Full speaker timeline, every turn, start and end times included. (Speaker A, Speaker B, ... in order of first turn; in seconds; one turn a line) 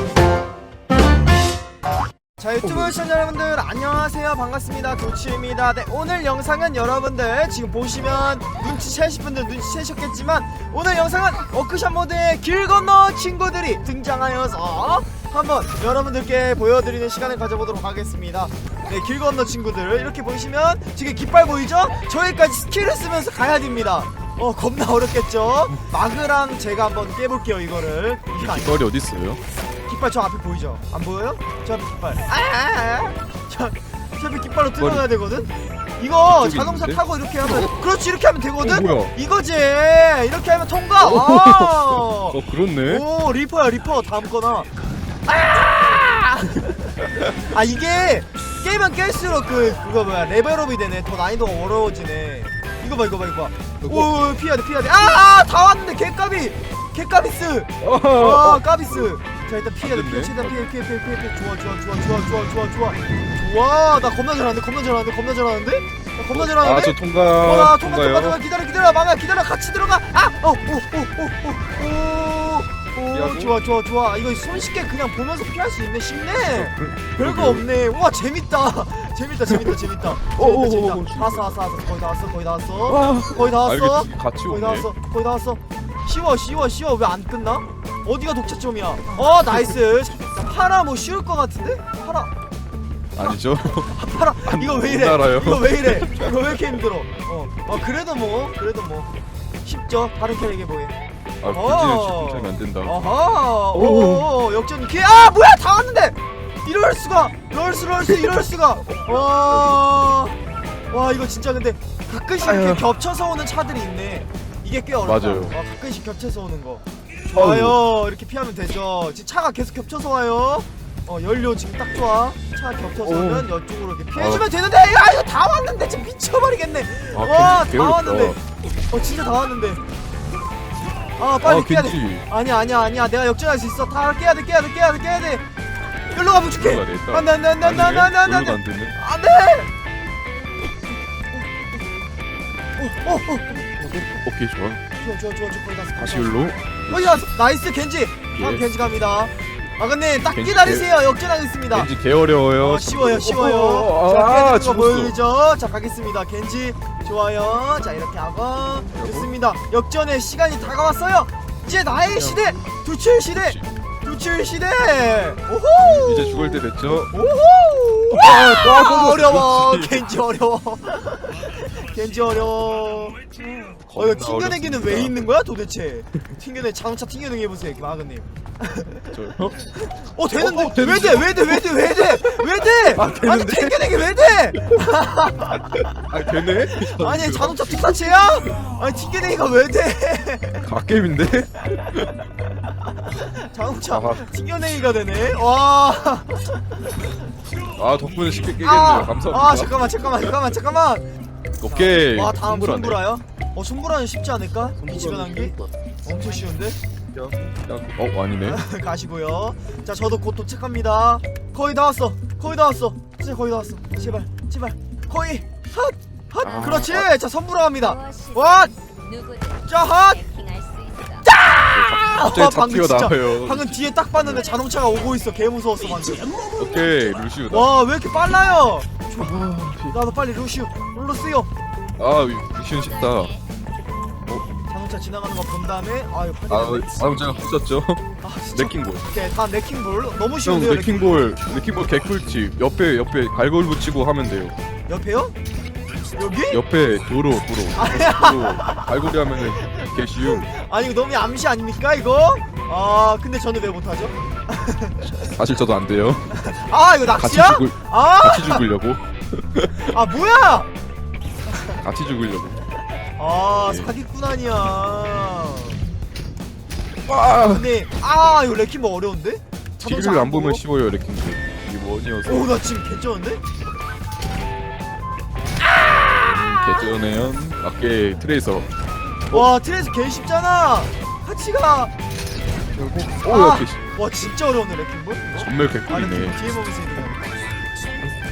Speaker A: 2.4-28.8
Speaker B: 2.6-2.9
Speaker B: 28.4-29.4
Speaker A: 29.9-44.7
Speaker B: 34.8-35.0
Speaker B: 36.2-37.7
Speaker B: 38.6-39.1
Speaker B: 41.0-43.0
Speaker A: 45.3-92.3
Speaker B: 53.8-54.1
Speaker B: 57.8-59.1
Speaker B: 59.8-60.6
Speaker B: 66.3-68.4
Speaker B: 73.1-73.6
Speaker B: 76.4-77.7
Speaker B: 79.5-81.6
Speaker B: 82.8-84.9
Speaker B: 93.2-96.6
Speaker A: 93.2-99.1
Speaker A: 99.6-101.0
Speaker B: 101.4-102.9
Speaker A: 101.5-110.4
Speaker B: 103.7-104.3
Speaker B: 108.9-109.9
Speaker A: 110.9-128.4
Speaker B: 112.4-112.8
Speaker B: 115.0-115.5
Speaker B: 117.3-117.8
Speaker B: 123.0-123.5
Speaker B: 124.2-124.5
Speaker B: 127.1-128.4
Speaker A: 128.9-129.8
Speaker A: 131.2-135.4
Speaker B: 131.4-132.2
Speaker A: 136.1-139.7
Speaker B: 136.5-138.9
Speaker A: 141.3-141.6
Speaker A: 142.8-143.7
Speaker B: 143.7-144.8
Speaker A: 145.0-146.3
Speaker B: 146.0-147.2
Speaker A: 146.9-151.9
Speaker B: 148.3-148.6
Speaker B: 150.2-150.9
Speaker B: 151.7-155.2
Speaker A: 152.6-173.2
Speaker B: 158.9-159.3
Speaker B: 162.1-162.6
Speaker B: 163.3-163.7
Speaker B: 165.8-167.2
Speaker B: 168.1-170.1
Speaker B: 173.9-175.2
Speaker A: 173.9-190.7
Speaker B: 179.1-179.7
Speaker B: 180.4-184.8
Speaker B: 185.9-188.1
Speaker B: 190.6-192.1
Speaker A: 193.0-196.6
Speaker B: 193.9-194.2
Speaker B: 197.8-199.9
Speaker A: 198.6-201.1
Speaker B: 201.6-203.1
Speaker A: 201.7-206.8
Speaker B: 204.8-205.7
Speaker B: 207.1-208.6
Speaker A: 208.4-218.7
Speaker B: 216.4-217.1
Speaker C: 217.8-221.2
Speaker A: 219.7-220.2
Speaker A: 221.2-226.5
Speaker B: 221.7-224.4
Speaker B: 226.6-227.7
Speaker A: 227.5-231.5
Speaker B: 229.2-230.0
Speaker B: 232.0-233.3
Speaker C: 232.7-233.4
Speaker A: 234.7-237.2
Speaker B: 236.5-239.1
Speaker A: 238.2-241.2
Speaker B: 240.4-244.5
Speaker A: 244.9-245.3
Speaker A: 246.1-246.6
Speaker B: 246.5-250.5
Speaker A: 247.8-248.9
Speaker A: 249.5-255.3
Speaker B: 255.0-256.4
Speaker A: 256.3-258.6
Speaker B: 257.1-259.9
Speaker A: 259.8-260.7
Speaker A: 261.5-261.8
Speaker B: 261.8-262.6
Speaker A: 263.2-265.8
Speaker B: 263.6-263.9
Speaker B: 267.1-267.7
Speaker A: 267.4-270.6
Speaker B: 269.8-272.6
Speaker A: 272.2-273.4
Speaker B: 276.0-278.7
Speaker A: 279.3-281.9
Speaker B: 282.7-283.8
Speaker A: 283.2-287.4
Speaker B: 285.4-286.4